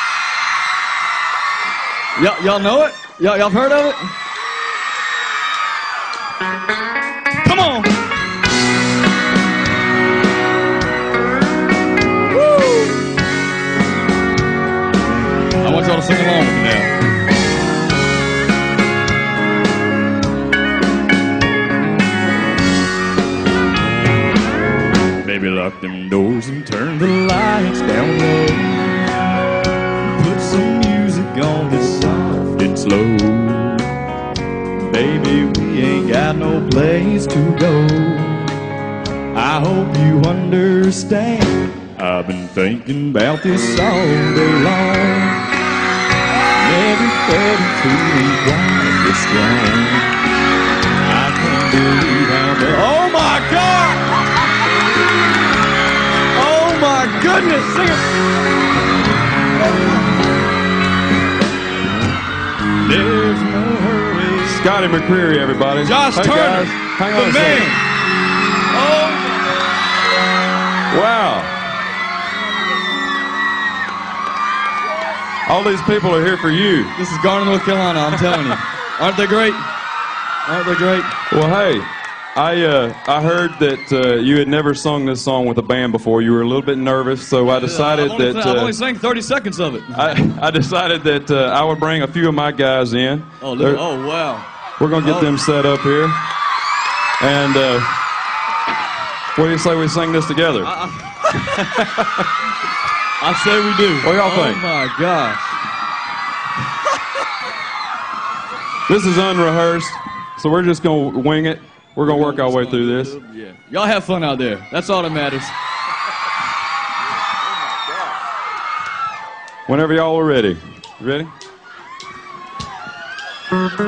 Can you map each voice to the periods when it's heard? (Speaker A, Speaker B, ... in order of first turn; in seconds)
Speaker A: 2.2-4.1, 7.4-8.0, 12.4-12.9, 15.6-16.9, 25.2-28.8, 30.0-33.9, 34.9-38.6, 39.3-45.5, 46.5-50.1, 51.0-54.2, 56.3-58.0, 62.8-64.6, 65.8-67.8, 68.7-69.4, 77.0-79.7, 80.5-81.1, 87.5-90.1, 93.4-94.5, 95.0-95.4, 100.6-101.5, 103.2-105.6, 112.0-115.5
Speaker B: 64.5-67.7, 70.9-71.5, 75.5-77.0, 81.3-88.8, 89.9-93.8, 94.8-96.2, 97.2-97.9, 99.4-100.7, 101.3-102.3, 104.0-104.6, 108.9-113.1, 119.7-121.3